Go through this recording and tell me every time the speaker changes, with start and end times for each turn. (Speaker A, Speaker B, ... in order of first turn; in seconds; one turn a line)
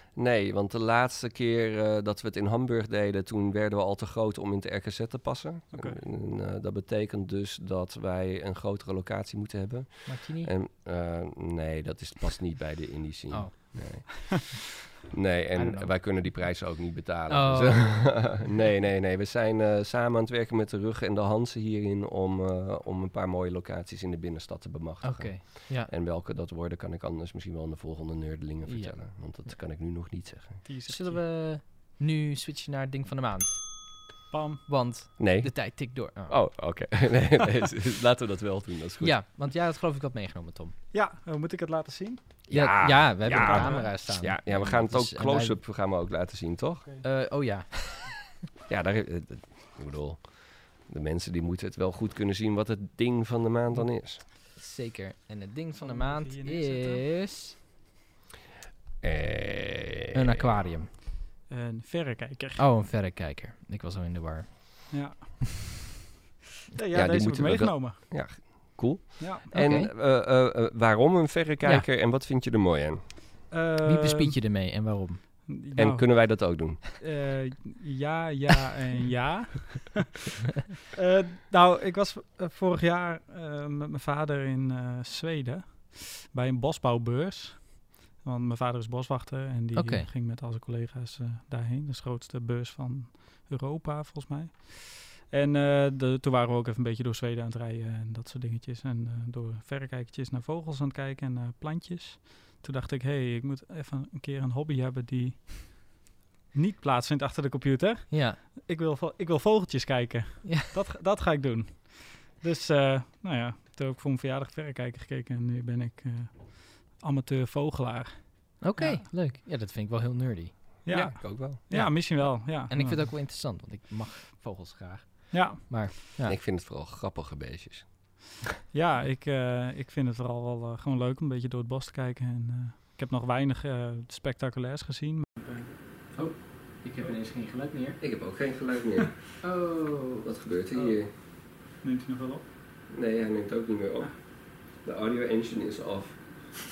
Speaker A: 0.1-30.6
Speaker B: 5.7-6.0
Speaker C: 10.1-10.6
Speaker C: 13.3-14.4
Speaker C: 15.6-16.0
Speaker C: 17.3-18.4
Speaker C: 25.0-25.9
Speaker C: 28.6-29.5
Speaker B: 30.6-31.2
Speaker C: 30.9-34.1
Speaker B: 34.3-34.8
Speaker C: 34.7-36.4
Speaker A: 35.2-39.2
Speaker C: 39.0-40.8
Speaker B: 40.9-42.4
Speaker A: 42.5-46.9
Speaker C: 42.5-45.6
Speaker B: 43.3-43.9
Speaker B: 46.8-47.1
Speaker C: 47.0-48.3
Speaker A: 48.7-54.2
Speaker C: 54.5-57.6
Speaker B: 55.8-57.1
Speaker A: 59.0-60.2
Speaker C: 60.1-60.9
Speaker B: 61.5-62.6
Speaker C: 62.6-65.1
Speaker B: 64.9-65.9
Speaker B: 66.7-68.1
Speaker A: 66.9-73.1
Speaker B: 69.2-69.5
Speaker C: 69.5-69.9
Speaker B: 73.5-74.4
Speaker C: 73.8-75.2
Speaker B: 75.5-80.3
Speaker A: 75.8-76.8
Speaker B: 80.9-106.0
Speaker C: 89.7-90.1
Speaker B: 106.5-119.1
Speaker C: 108.1-108.4
Speaker C: 110.4-110.7
Speaker C: 118.6-120.8
Speaker B: 120.9-123.1
Speaker A: 120.9-121.6
Speaker C: 121.7-126.4
Speaker B: 125.3-125.9
Speaker A: 126.3-127.9
Speaker B: 128.7-135.7
Speaker C: 136.1-138.0
Speaker A: 138.0-139.2
Speaker C: 139.4-140.9
Speaker A: 140.2-141.1
Speaker B: 141.8-142.5
Speaker A: 142.9-146.2